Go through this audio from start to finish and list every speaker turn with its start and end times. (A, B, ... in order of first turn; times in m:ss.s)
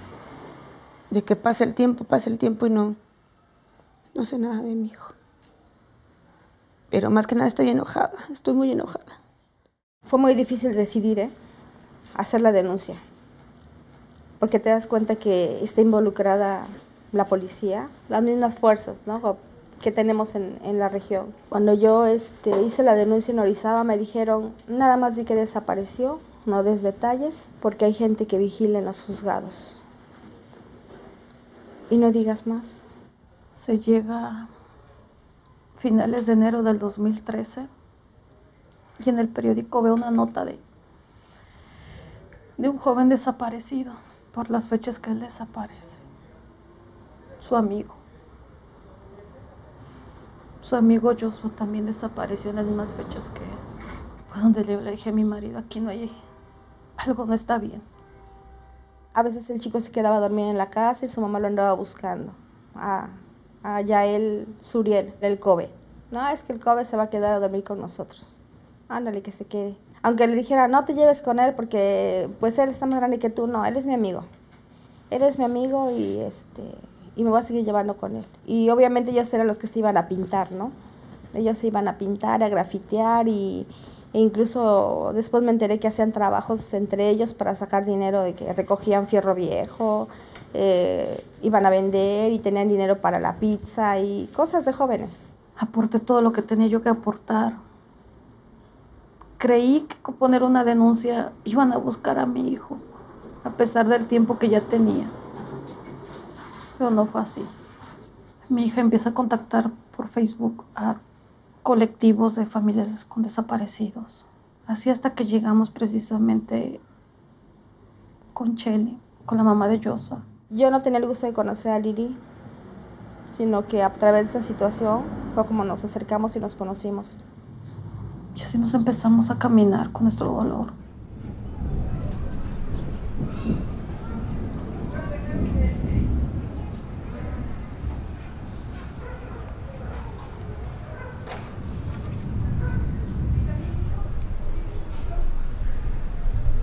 0:01.1-0:03.0 A
0:04.1-0:05.1 A
0:06.9-0:09.2 A
0:10.0-0:11.3 B
0:12.1-0:13.0 B
0:14.4-0:29.8 B
0:31.9-0:32.8 B
0:33.6-0:34.5 C
0:35.8-0:37.7 C
0:39.0-0:40.6 C
0:42.6-0:46.0 C
0:47.4-0:48.0 C
0:50.6-0:53.6 C
0:54.3-0:56.2 C
0:57.0-0:57.8 C
0:59.1-1:14.3 B
1:15.1-1:20.8 B
1:21.3-1:35.3 B
1:35.6-1:37.6 C
1:39.4-1:42.8 C
1:43.4-1:45.1 C
1:46.8-1:47.5 C
1:48.5-1:51.0 C
1:51.6-1:56.8 C
1:58.3-2:00.2 C
2:00.5-2:02.2 B
2:03.3-2:07.2 B
2:08.3-2:10.7 C